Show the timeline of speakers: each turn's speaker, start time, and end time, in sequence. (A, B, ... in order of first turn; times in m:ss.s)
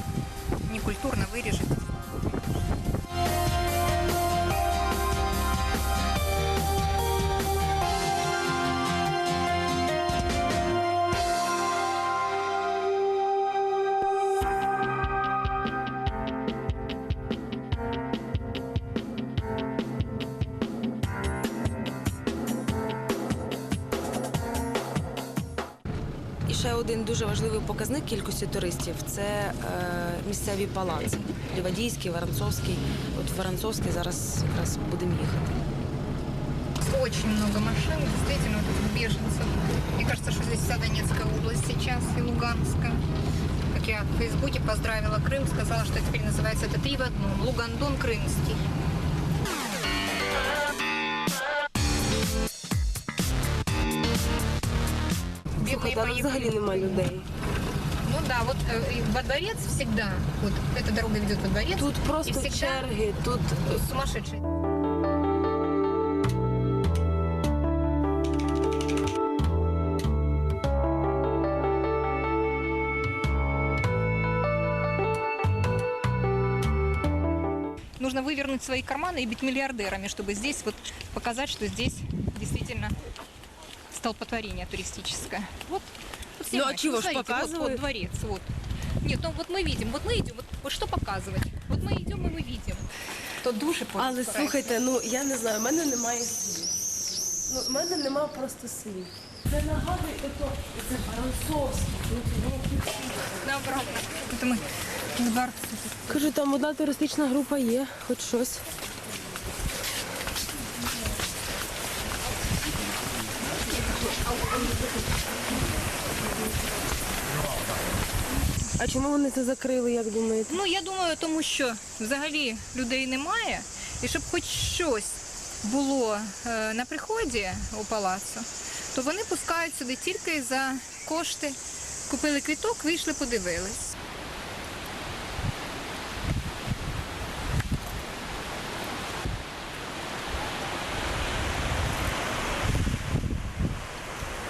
0:00.7-0:02.6 A
0:26.5-0:35.6 B
0:36.8-0:43.0 A
0:43.7-0:48.6 A
0:55.6-0:57.1 A
0:55.6-0:57.2 C
0:58.0-1:03.0 A
1:01.8-1:03.7 C
1:03.6-1:04.4 A
1:18.0-1:22.9 A
1:23.9-1:25.8 A
1:26.4-1:28.5 A
1:26.5-1:27.8 C
1:29.0-1:32.9 A
1:33.4-1:34.8 A
1:33.9-1:36.7 C
1:37.5-1:43.4 C
1:43.4-1:45.9 A
1:46.1-1:48.6 C
1:58.8-2:00.6 C
2:00.5-2:11.6 A
2:12.1-2:13.9 A